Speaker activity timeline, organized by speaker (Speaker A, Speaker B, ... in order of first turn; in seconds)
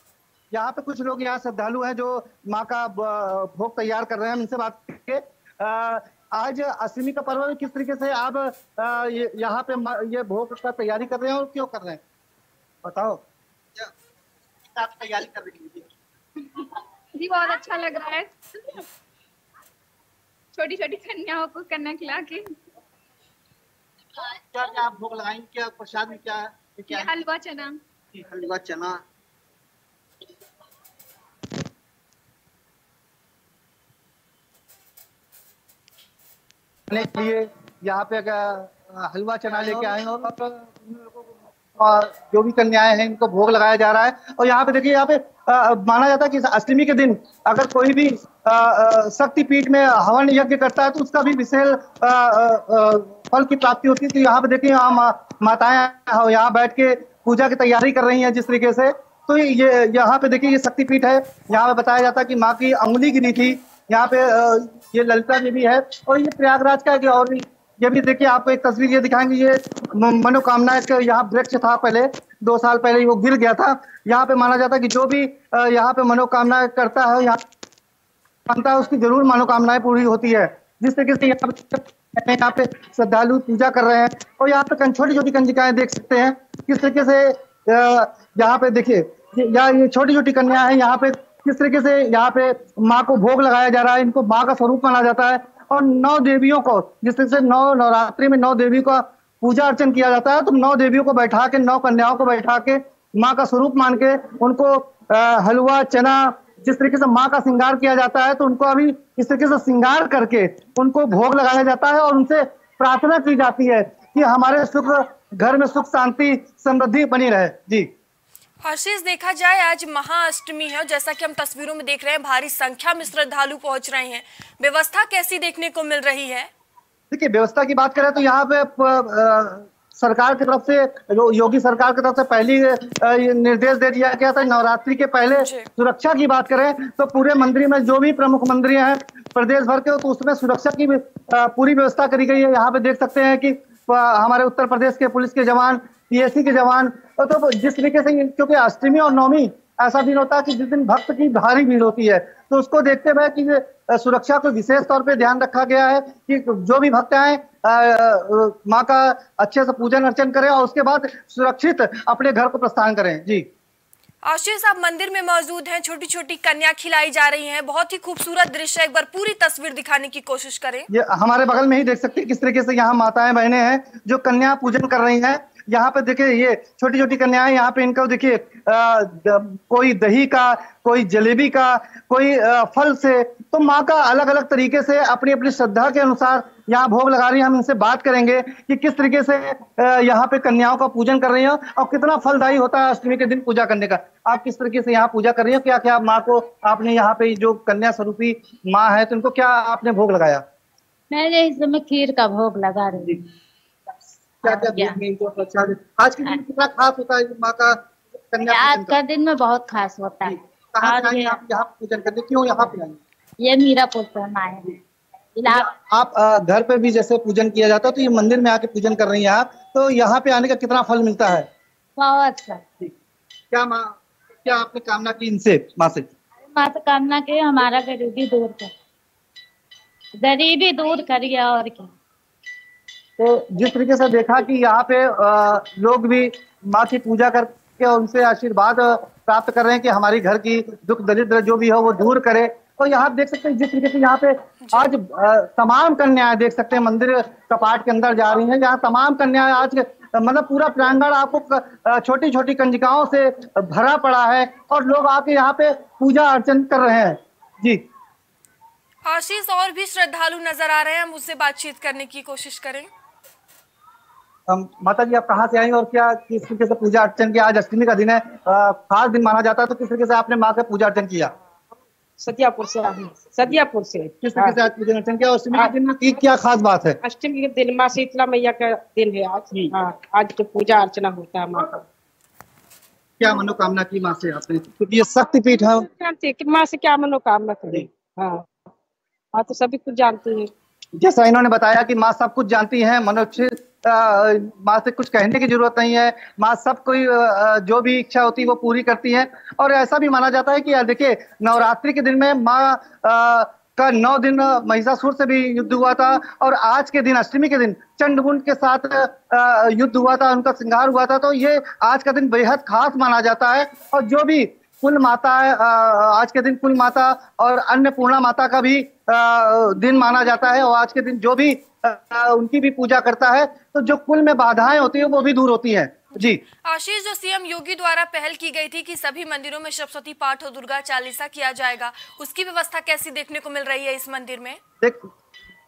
Speaker A: 0.5-12.0, 12.8-13.2, 14.7-15.9, 24.3-27.2, 28.1-29.0, 36.9-77.4, 78.5-117.9, 127.1-163.4, 170.9-200.4, 204.4-209.0, 210.3-213.0, 215.5-221.5, 223.5-226.1, 233.2-257.8, 264.5-271.3, 274.2-277.0, 283.2-285.9, 291.0-326.4, 334.8-335.1
Speaker B: 17.2-18.3, 20.6-22.5, 26.9-27.8
Speaker C: 118.6-126.5, 135.4-135.7, 164.2-170.9, 244.6-244.9, 259.1-262.9, 326.2-334.6
Speaker D: 201.1-203.2, 204.5-205.0, 208.5-211.4, 213.4-214.8, 215.3-215.7, 222.0-222.7, 226.5-228.7, 230.2-231.9
Speaker E: 272.2-274.6, 277.0-281.8, 285.8-288.5, 289.3-290.5